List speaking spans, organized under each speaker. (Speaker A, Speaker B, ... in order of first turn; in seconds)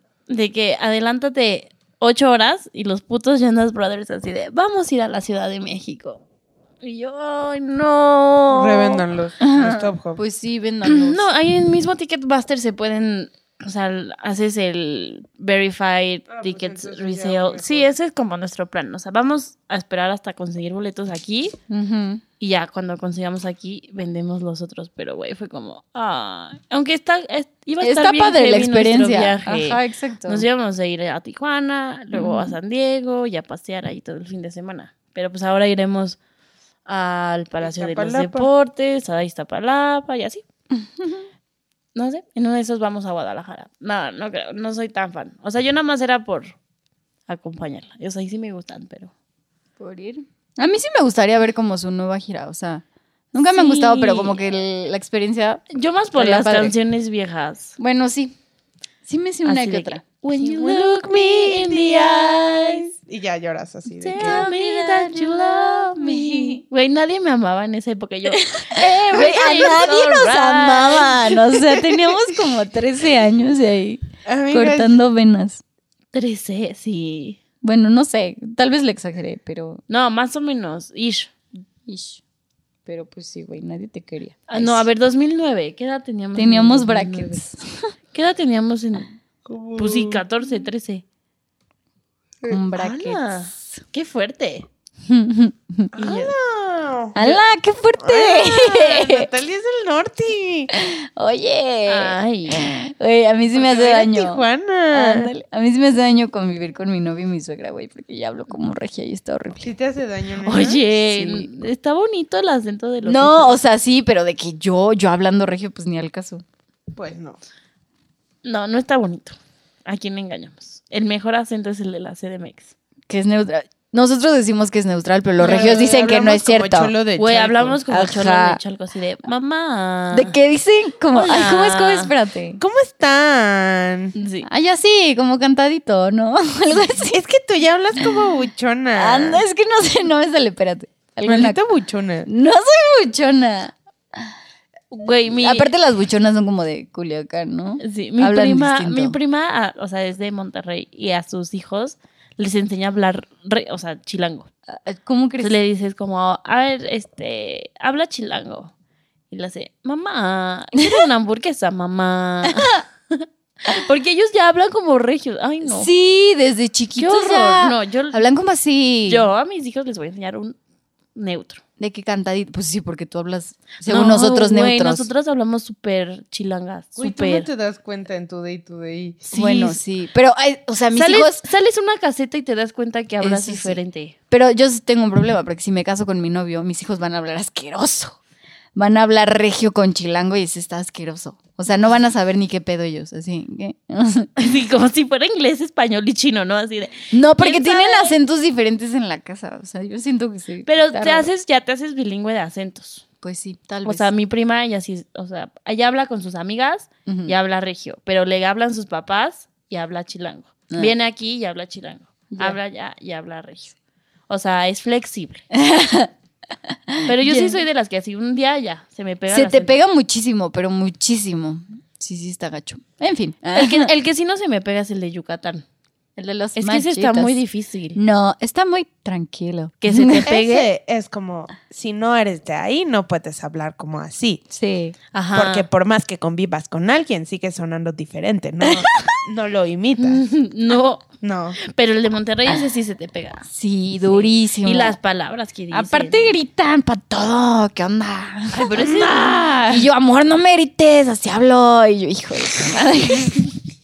Speaker A: 0.3-6.2, 6.8-9.0, 10.8-21.6, 22.4-36.2, 36.9-40.4, 41.9-46.5, 47.3-49.1, 53.4-54.4, 55.7-57.8, 59.4-62.9, 64.0-71.4, 76.1-77.4, 79.9-81.3, 84.5-87.4, 88.1-89.1, 89.8-91.0, 92.7-94.7, 96.0-96.3, 101.8-102.7, 110.5-113.6, 118.4-122.7, 125.4-125.9, 127.2-130.3, 131.1-132.1, 134.2-134.5, 144.9-145.7, 147.8-154.5, 155.4-158.7, 159.3-165.9, 167.0-168.3, 169.1-170.6, 171.1-171.6, 173.8-177.5, 179.3-179.8, 180.9-184.1, 194.4-198.2, 200.7-203.0, 203.8-213.8, 214.3-215.4, 217.0-219.7, 223.5-225.6, 226.6-228.0, 229.8-230.7, 235.1-235.7, 240.0-241.0, 241.6-243.5, 244.0-246.3, 248.5-249.7
Speaker B: 8.5-10.2, 16.3-17.9, 37.6-38.5, 60.3-64.4, 74.2-75.0, 89.5-90.2, 95.9-97.4, 98.0-100.7, 103.5-105.3, 109.6-110.8, 116.9-117.4, 125.4-127.8, 132.6-134.1, 136.9-139.4, 141.2-142.3, 177.0-179.4, 230.2-234.4, 235.3-240.2, 241.2-241.6, 248.8-249.6
Speaker C: 9.4-11.2, 21.7-22.2, 27.8-30.4, 32.1-32.5, 40.7-41.3, 49.8-55.6, 56.1-56.7, 57.8-58.3, 59.0-60.0, 64.2-66.6, 68.3-75.6, 77.6-79.8, 81.8-82.2, 82.8-84.9, 86.3-87.9, 92.5-93.8, 95.0-95.9, 97.1-99.3, 100.7-109.7, 111.0-111.5, 113.0-116.4, 123.1-126.9, 127.9-128.6, 130.1-132.6, 134.4-137.2, 138.0-138.2, 138.9-141.6, 142.2-144.3, 145.3-149.2, 154.7-155.6, 160.8-161.0, 165.6-169.3, 171.8-175.1, 179.3-181.4, 183.2-188.2, 188.7-194.3, 197.1-201.3, 203.2-204.1, 207.1-207.3, 212.3-212.6, 215.5-216.1, 216.6-217.6, 219.3-223.9, 226.2-227.4, 227.9-230.3, 234.5-234.9, 238.6-239.2, 243.5-245.0, 245.7-249.0, 249.7-253.6